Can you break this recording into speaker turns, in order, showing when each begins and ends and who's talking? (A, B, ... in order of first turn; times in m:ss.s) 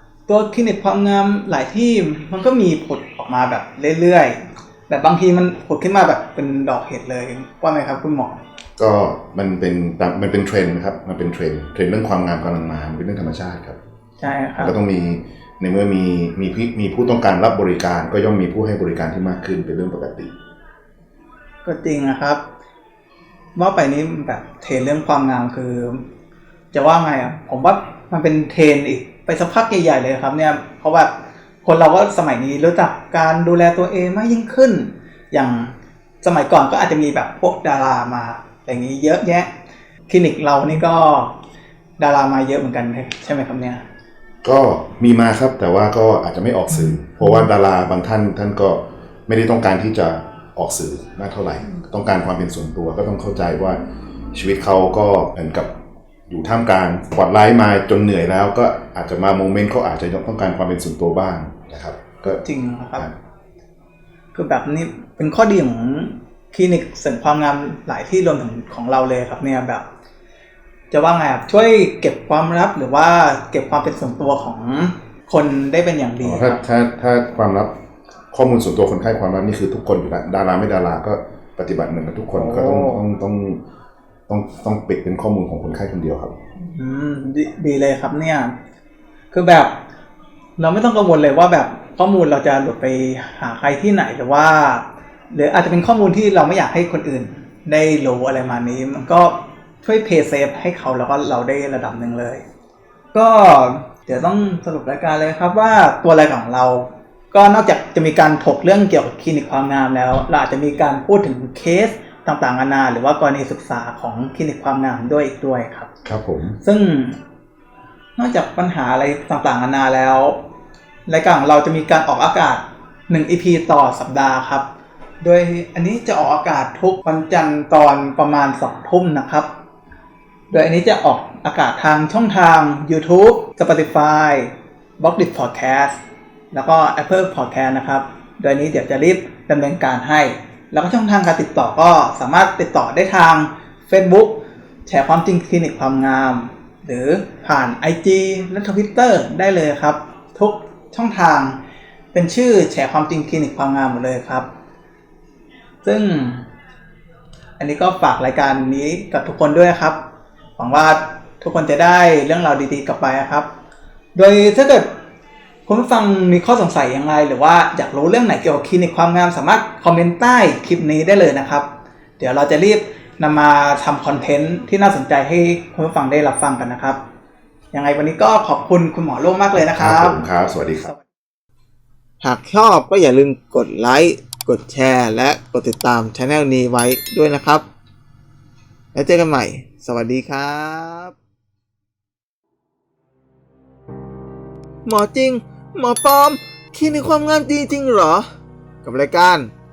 0:00.3-0:08.4 A
0:08.8-0:13.8 B
0:14.2-0:14.7 A
0:14.6-0:20.3 B
0:21.6-0:22.4 A
0:23.6-0:26.0 A
0:26.7-0:31.1 A
0:31.6-0:39.5 A
0:40.1-0:41.4 A
0:42.0-0:43.8 A
0:44.4-0:53.8 B
0:54.3-0:55.7 B
0:56.3-1:02.4 B
1:02.4-1:03.0 A
1:04.3-1:09.8 A
1:10.9-1:16.6 A
1:16.2-1:17.7 B
1:18.3-1:23.6 B
1:22.3-1:23.0 A
1:24.3-1:26.4 B
1:26.6-1:28.5 A
1:29.3-1:29.8 A
1:30.6-1:42.4 A
1:43.1-1:55.9 A
1:56.0-1:56.6 B
1:56.6-1:57.2 A
1:58.2-2:00.4 A
2:01.1-2:04.6 A
2:05.2-2:09.5 A
2:10.5-2:16.0 A
2:16.5-2:31.6 A
2:32.1-2:34.5 A
2:35.8-2:36.4 A
2:37.6-2:40.0 A
2:40.6-2:43.5 A
2:44.1-2:44.9 A
2:45.7-2:57.0 A
2:57.7-3:00.2 A
2:59.7-3:00.9 B
3:02.2-3:07.6 C
3:08.9-3:11.2 C
3:14.8-3:18.2 C
3:18.8-3:19.5 C